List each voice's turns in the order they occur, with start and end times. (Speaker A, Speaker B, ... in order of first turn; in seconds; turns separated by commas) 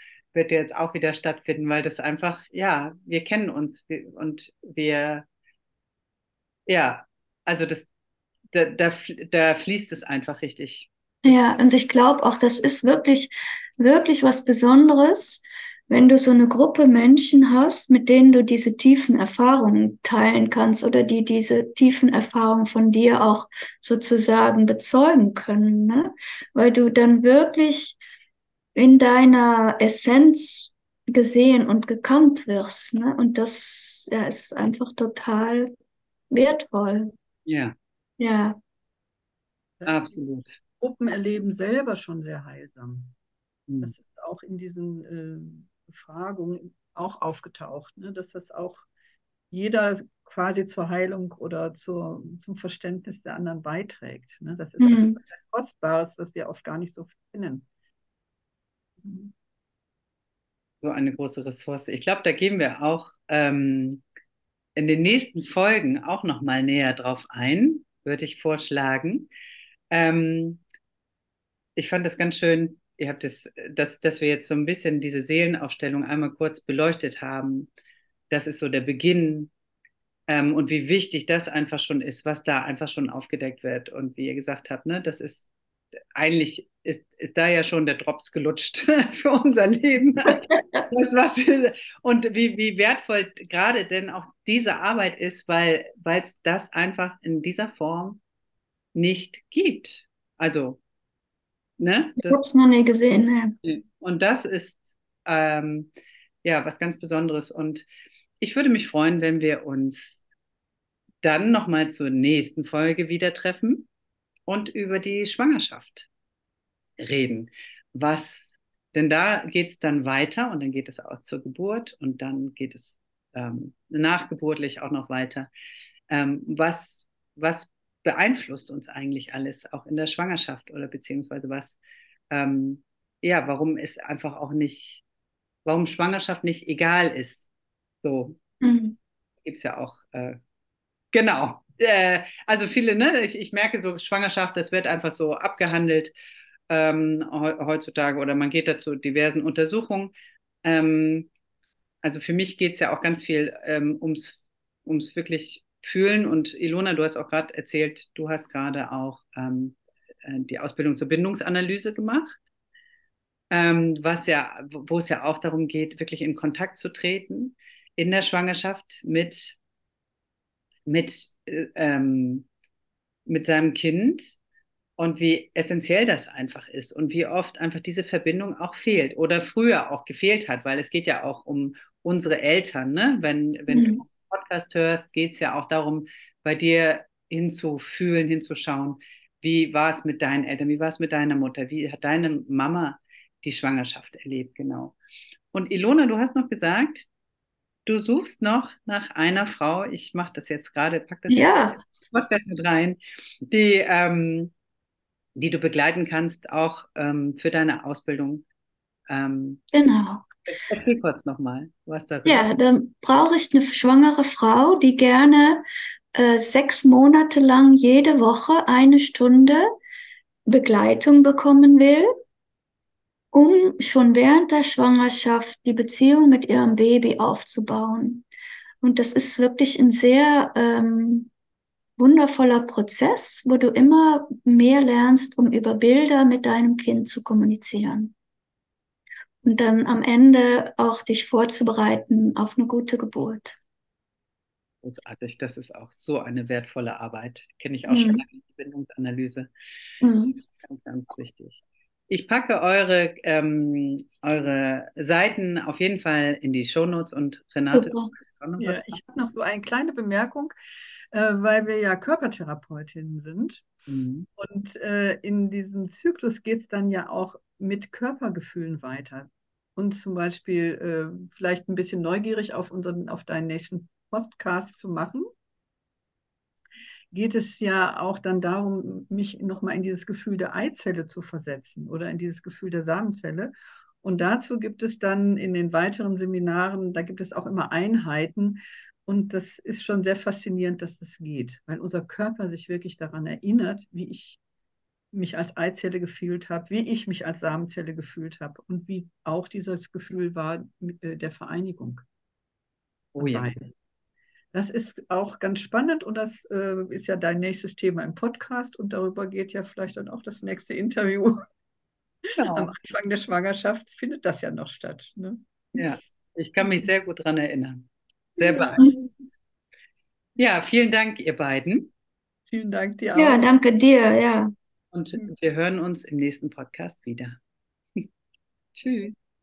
Speaker A: 0.3-5.3, Speaker A: 6.7-7.9, Speaker A: 8.5-11.4, Speaker B: 11.2-28.0, Speaker B: 28.8-35.7, Speaker B: 36.3-37.1, Speaker A: 37.5-37.8, Speaker B: 38.2-38.6, Speaker C: 39.8-40.2, Speaker A: 39.9-40.6, Speaker C: 40.8-43.1, Speaker A: 43.7-43.9, Speaker C: 43.8-48.9, Speaker C: 49.5-57.7, Speaker B: 54.8-55.2, Speaker C: 59.0-59.3, Speaker A: 60.8-64.0, Speaker A: 64.8-69.3, Speaker A: 69.9-70.6, Speaker A: 71.8-77.7, Speaker A: 78.3-79.5, Speaker A: 80.3-85.5, Speaker A: 86.2-98.2, Speaker B: 90.5-90.8, Speaker A: 99.0-100.8, Speaker A: 101.8-102.4, Speaker B: 102.2-103.6, Speaker A: 103.6-105.9, Speaker A: 106.4-107.9, Speaker A: 108.4-110.2, Speaker A: 111.2-113.9, Speaker A: 114.5-116.1, Speaker A: 117.0-118.4, Speaker A: 118.9-125.5, Speaker A: 126.1-131.8, Speaker A: 132.3-135.0, Speaker A: 135.7-137.5, Speaker A: 138.0-138.4, Speaker B: 138.6-139.0, Speaker A: 139.4-140.4, Speaker A: 141.1-146.1, Speaker A: 146.7-150.1, Speaker A: 150.6-151.3, Speaker A: 152.0-162.4, Speaker A: 163.5-169.6, Speaker A: 170.9-172.5, Speaker A: 173.3-174.4, Speaker A: 175.0-195.0, Speaker B: 183.7-184.0, Speaker A: 195.5-197.1, Speaker A: 197.9-203.0, Speaker B: 201.3-201.8, Speaker A: 203.5-204.5, Speaker A: 205.4-208.4, Speaker A: 209.1-209.6, Speaker B: 209.7-210.3, Speaker A: 210.5-212.5, Speaker B: 212.2-219.6, Speaker B: 220.5-222.1, Speaker B: 223.3-228.3, Speaker B: 228.8-231.3, Speaker B: 232.0-238.1, Speaker B: 239.4-243.6, Speaker A: 244.8-249.5, Speaker B: 247.9-248.2, Speaker B: 250.0-250.4, Speaker A: 250.6-259.0, Speaker B: 257.7-258.1, Speaker C: 258.6-260.5, Speaker C: 261.1-263.7, Speaker A: 263.9-264.3, Speaker C: 264.4-275.3, Speaker C: 277.1-294.4, Speaker C: 295.1-302.0, Speaker A: 303.2-303.6, Speaker C: 303.2-303.7, Speaker C: 304.5-311.4, Speaker A: 312.4-312.7, Speaker C: 312.5-315.4, Speaker A: 315.8-318.9, Speaker A: 320.4-321.9, Speaker C: 322.5-323.5, Speaker B: 323.2-324.5, Speaker A: 324.9-327.4, Speaker A: 328.8-329.1